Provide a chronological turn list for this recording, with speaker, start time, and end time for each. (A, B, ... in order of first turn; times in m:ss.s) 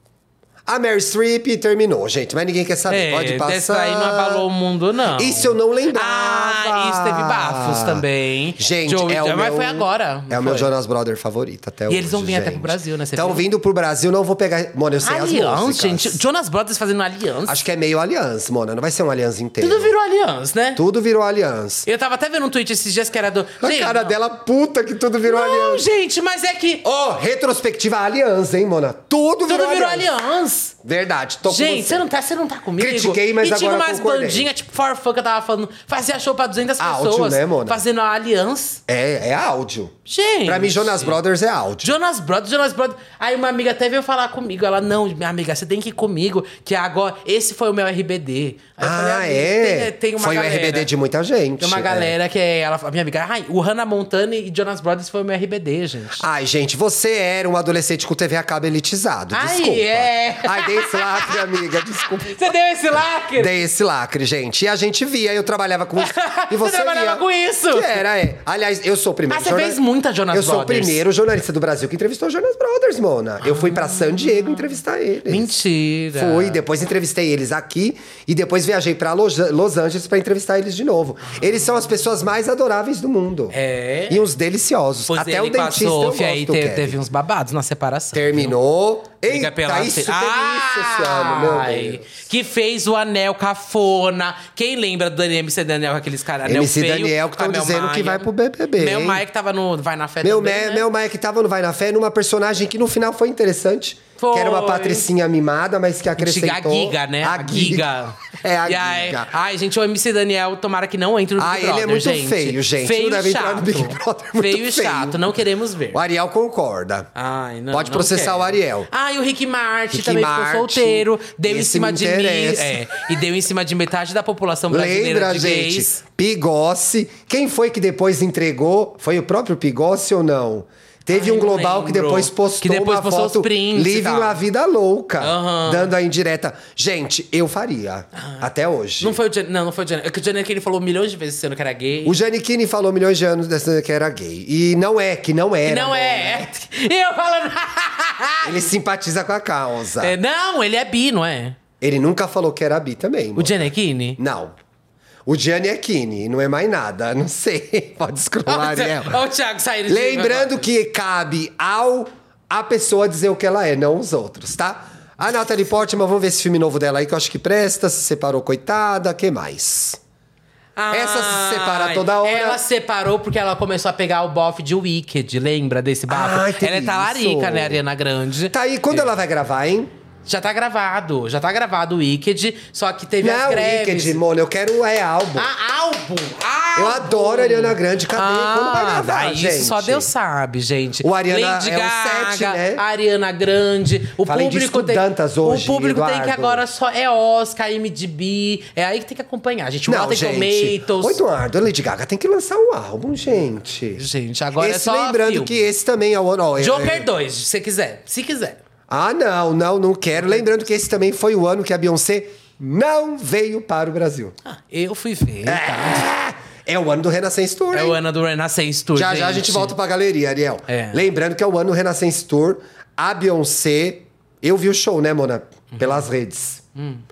0:00.6-0:04.4 A
0:02.9-0:10.7 B
0:05.2-0:08.0 A
0:08.6-0:16.2 A
0:11.9-0:13.4 B
0:15.0-0:17.6 B
0:17.4-0:19.9 A
0:19.6-0:20.8 B
0:20.8-0:21.9 A
0:21.9-0:24.1 B
0:23.6-0:25.8 A
0:25.2-0:26.8 B
0:26.8-0:30.1 A
0:29.5-0:30.7 B
0:30.8-0:32.0 A
0:31.4-0:38.8 B
0:32.8-0:34.5 A
0:36.8-0:37.8 A
0:38.9-0:41.9 A
0:40.0-0:41.2 B
0:41.8-0:50.9 B
0:48.8-0:52.1 A
0:51.6-0:56.2 B
0:56.2-1:02.4 A
0:59.3-1:03.5 B
1:03.4-1:15.6 A
1:06.0-1:08.0 B
1:09.3-1:11.0 B
1:13.4-1:14.8 B
1:15.3-1:16.6 B
1:16.1-1:23.6 A
1:23.5-1:24.2 B
1:24.1-1:27.0 A
1:25.1-1:28.6 B
1:28.1-1:32.2 A
1:29.2-1:40.9 B
1:36.4-1:39.2 A
1:40.2-1:49.3 A
1:44.2-1:45.1 B
1:46.2-1:56.0 B
1:51.4-1:55.3 A
1:55.9-1:57.1 A
1:57.2-2:05.9 B
1:57.7-1:58.9 A
1:59.9-2:02.8 A
2:04.7-2:19.2 A
2:11.1-2:14.4 B
2:15.2-2:15.9 B
2:18.2-2:18.4 B
2:19.0-2:22.2 B
2:22.0-2:26.5 A
2:25.6-2:28.7 B
2:28.4-2:30.1 A
2:30.0-2:31.6 B
2:31.8-2:34.6 A
2:33.4-2:34.2 B
2:35.2-2:39.2 A
2:38.4-2:40.7 B
2:39.9-2:50.0 A
2:50.8-2:59.1 B
2:50.9-2:52.6 A
2:56.1-2:57.8 A
2:58.5-2:59.9 A
3:00.2-3:04.2 B
3:03.2-3:05.5 A
3:05.4-3:21.2 B
3:06.8-3:10.1 A
3:11.0-3:12.8 A
3:14.2-3:16.6 A
3:19.8-3:24.0 A
3:23.9-3:25.6 B
3:24.6-3:27.1 A
3:26.6-3:28.6 B
3:28.9-3:34.3 A
3:34.4-3:36.1 B
3:35.4-3:38.0 A
3:37.7-3:39.8 B
3:38.9-3:46.6 A
3:40.7-3:41.0 B
3:45.7-3:46.0 B
3:46.8-3:47.0 B